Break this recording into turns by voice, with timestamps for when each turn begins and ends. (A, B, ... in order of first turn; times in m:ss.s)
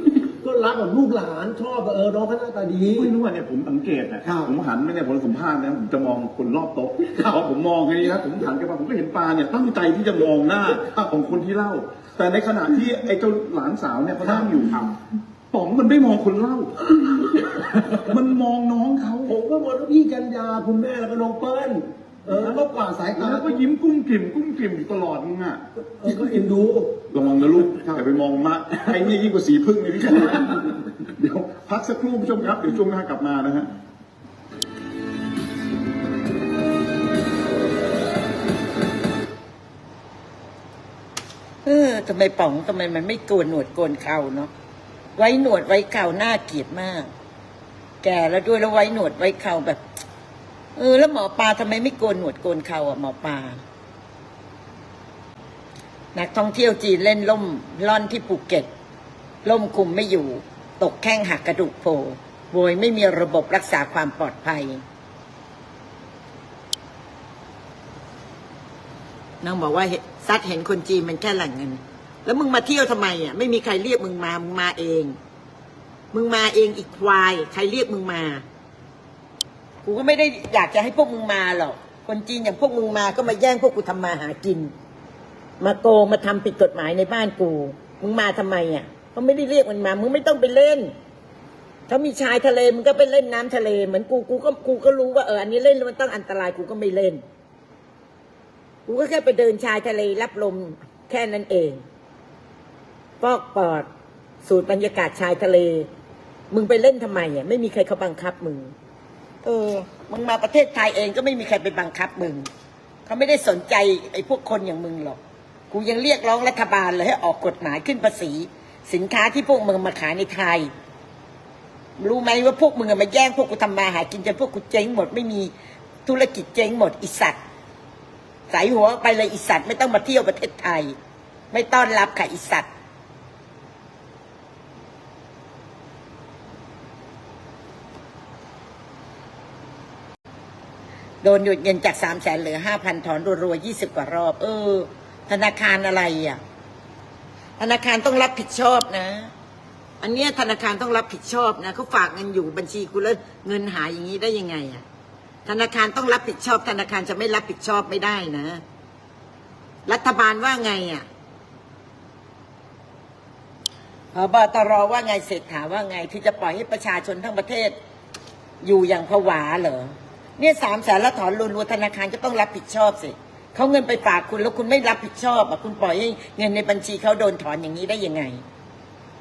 0:00.2-0:03.1 A
0:02.9-0:15.0 B
0:15.5-0:19.4 B
0:19.3-0:23.7 A
0:23.2-0:25.6 B
0:26.0-0:26.9 A
0:27.1-0:33.7 B
0:41.6-0:44.5 C
0:45.2-0:47.1 C
0:48.0-0:49.8 C
0:50.8-0:53.6 C
0:56.1-0:58.7 C
0:59.4-1:04.8 C
1:09.4-1:15.2 C
1:16.1-1:18.4 C
1:19.8-1:24.7 C
1:25.6-1:30.9 C
1:31.9-1:37.2 C
1:38.9-1:41.8 C
1:43.2-1:43.9 C
1:44.4-1:45.9 C
1:46.5-1:48.7 C
1:49.4-1:52.5 C
1:53.1-1:55.2 C
1:55.7-2:00.7 C
2:02.0-2:05.5 C
2:06.0-2:07.4 C
2:08.5-2:11.0 C
2:11.5-2:12.7 C
2:21.2-2:26.4 C
2:27.6-2:29.3 C
2:30.0-2:34.8 C
2:35.4-2:38.6 C
2:39.8-2:41.1 C
2:44.1-2:47.8 C
2:48.6-2:58.4 C